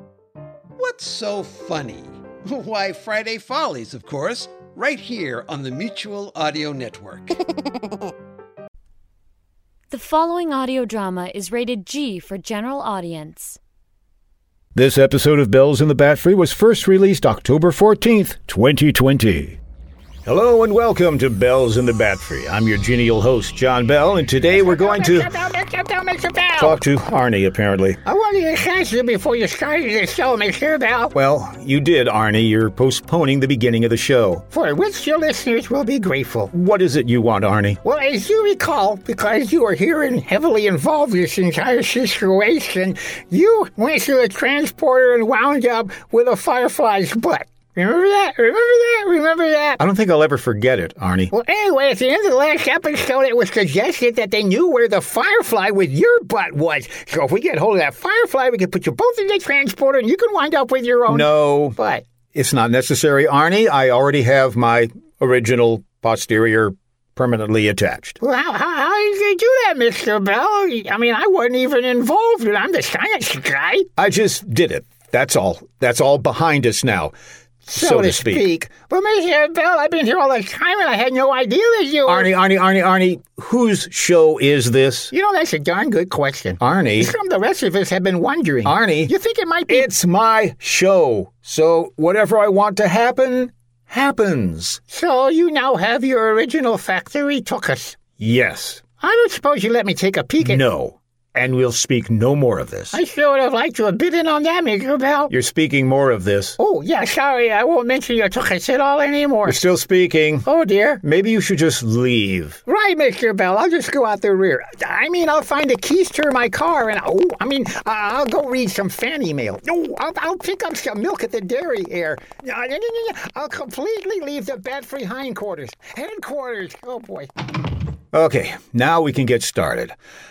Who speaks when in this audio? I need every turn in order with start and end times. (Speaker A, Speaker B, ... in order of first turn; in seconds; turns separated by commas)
Speaker A: 0.8-7.3, Speaker B: 9.9-13.6, Speaker C: 14.8-19.5, Speaker C: 20.2-25.3, Speaker D: 24.5-26.8, Speaker C: 26.6-28.0, Speaker D: 28.0-31.1, Speaker C: 31.1-34.4, Speaker D: 34.5-36.5, Speaker C: 36.5-37.8, Speaker D: 37.8-49.8, Speaker C: 49.8-51.3, Speaker D: 51.3-62.0, Speaker C: 61.1-61.8, Speaker C: 62.3-68.2, Speaker D: 68.2-73.9, Speaker C: 74.0-77.1, Speaker D: 77.7-82.3, Speaker C: 77.7-78.5, Speaker C: 82.0-85.1, Speaker D: 85.1-89.9, Speaker C: 86.6-87.1, Speaker C: 88.6-89.1, Speaker C: 89.7-94.8, Speaker D: 94.9-98.0, Speaker C: 98.2-98.8, Speaker D: 99.0-100.6, Speaker C: 100.4-103.0, Speaker D: 102.9-105.3, Speaker C: 105.3-106.6, Speaker D: 106.6-109.6, Speaker C: 109.5-110.5, Speaker D: 110.4-111.0, Speaker C: 111.0-112.6, Speaker D: 112.7-127.3, Speaker C: 128.1-129.9